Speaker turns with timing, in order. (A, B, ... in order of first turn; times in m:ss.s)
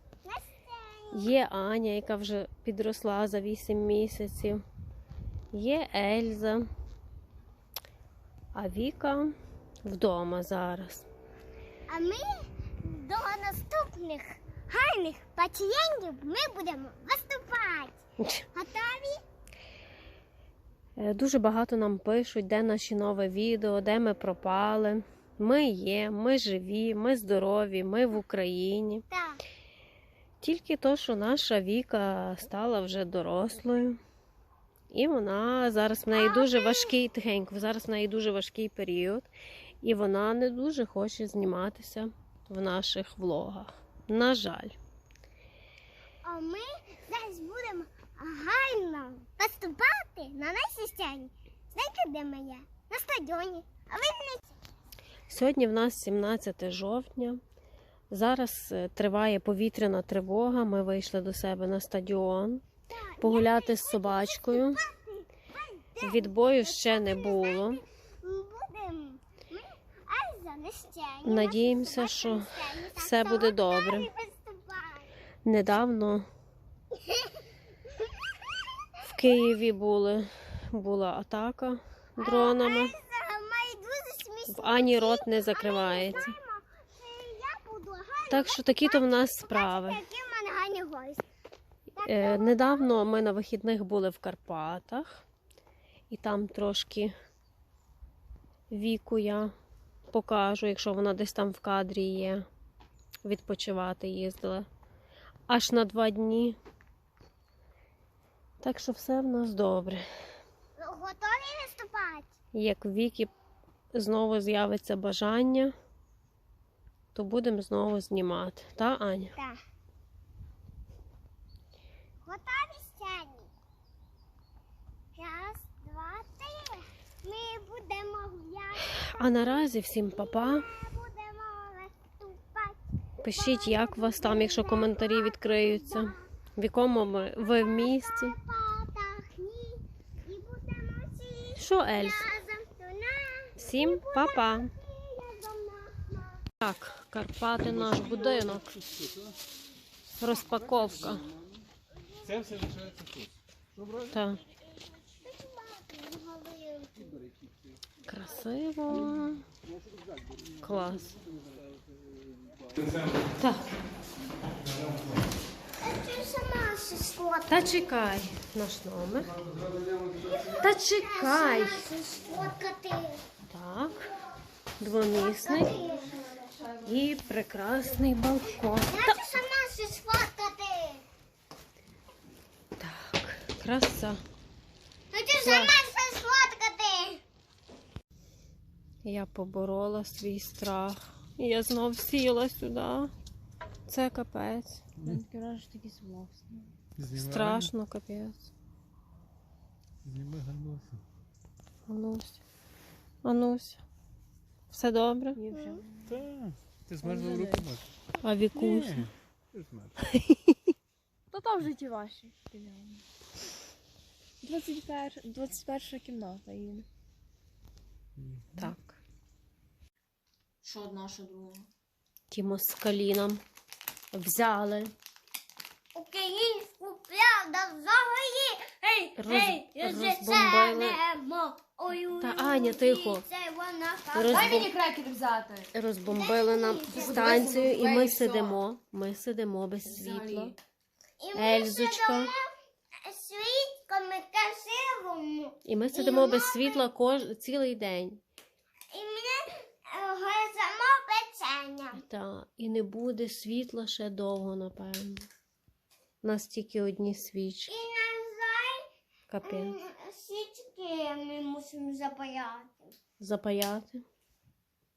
0:00.2-0:01.3 A
0:01.1-0:04.6 B
0:05.5-0:06.6 B
0:08.5-0:11.0 B
0:11.9-0:18.0 A
0:18.5-0:19.2 A
0:21.0-0:29.0 B
0:29.1-0:29.4 A
0:30.4-0:34.0 B
0:34.9-0:39.3 B
0:36.1-0:37.0 A
0:39.8-0:44.7 B
0:46.2-0:54.5 A
0:55.3-0:57.4 B
0:58.1-1:02.6 B
1:02.9-1:15.1 A
1:03.2-1:04.8 B
1:06.0-1:07.8 B
1:11.2-1:14.1 B
1:15.4-1:16.3 B
1:16.9-1:17.4 A
1:19.0-1:23.0 B
1:22.2-1:31.2 A
1:24.5-1:26.3 B
1:28.3-1:30.0 B
1:32.0-1:33.0 A
1:32.0-1:35.2 B
1:36.1-1:37.1 B
1:38.7-1:39.5 B
1:40.1-1:42.4 B
1:43.2-1:44.7 B
1:45.5-1:46.6 B
1:48.6-1:50.0 B
1:50.8-1:52.3 A
1:52.5-1:53.3 B
1:53.9-1:55.7 B
1:57.1-1:59.3 B
2:02.2-2:03.5 A
2:05.2-2:16.2 A
2:09.0-2:10.7 B
2:13.2-2:18.4 B
2:17.4-2:26.4 A
2:21.6-2:22.3 B
2:23.6-2:24.7 B
2:26.6-2:28.8 B
2:27.8-2:29.0 C
2:30.1-2:31.2 B
2:32.0-2:32.3 A
2:32.2-2:33.3 C
2:34.1-2:34.4 B
2:35.2-2:37.1 A
2:38.1-2:39.4 B
2:40.6-2:41.1 B
2:43.4-2:43.8 B
2:45.8-2:47.6 A
2:47.5-2:49.4 B
2:50.2-2:53.2 A
2:50.6-2:51.8 B
2:53.4-2:54.1 B
2:54.8-2:55.8 B
2:55.1-2:56.3 A
2:56.8-2:59.3 B
2:58.9-3:01.0 A
3:02.8-3:04.2 B
3:05.1-3:07.2 A
3:05.4-3:05.8 B
3:09.0-3:13.1 B
3:13.9-3:14.8 B
3:15.0-3:16.7 D
3:17.0-3:17.7 C
3:17.1-3:18.5 B
3:20.0-3:21.0 C
3:21.9-3:22.4 B
3:23.2-3:23.8 B
3:24.7-3:25.4 B
3:25.4-3:26.2 D
3:25.5-3:25.8 A
3:26.1-3:27.8 C
3:27.0-3:27.8 D
3:28.2-3:29.1 B
3:28.5-3:30.1 C
3:31.3-3:33.0 D
3:34.4-3:36.8 D
3:38.2-3:38.7 C
3:38.5-3:39.0 B
3:40.6-3:41.7 D
3:42.3-3:43.4 B
3:44.1-3:44.9 B
3:45.9-3:54.7 A
3:49.2-3:51.0 B
3:52.2-3:53.2 B
3:54.1-3:54.8 B
3:54.3-3:55.7 D
3:55.7-4:00.5 B
3:56.0-3:57.5 A
3:56.9-3:58.6 D
3:59.8-4:00.5 D
4:01.2-4:02.4 A
4:01.3-4:02.3 B
4:03.0-4:06.8 A
4:05.6-4:08.2 B
4:08.9-4:12.0 A
4:11.9-4:15.3 B
4:16.2-4:17.8 B
4:17.7-4:18.8 A
4:19.3-4:19.8 B
4:19.4-4:22.9 A
4:23.2-4:24.0 B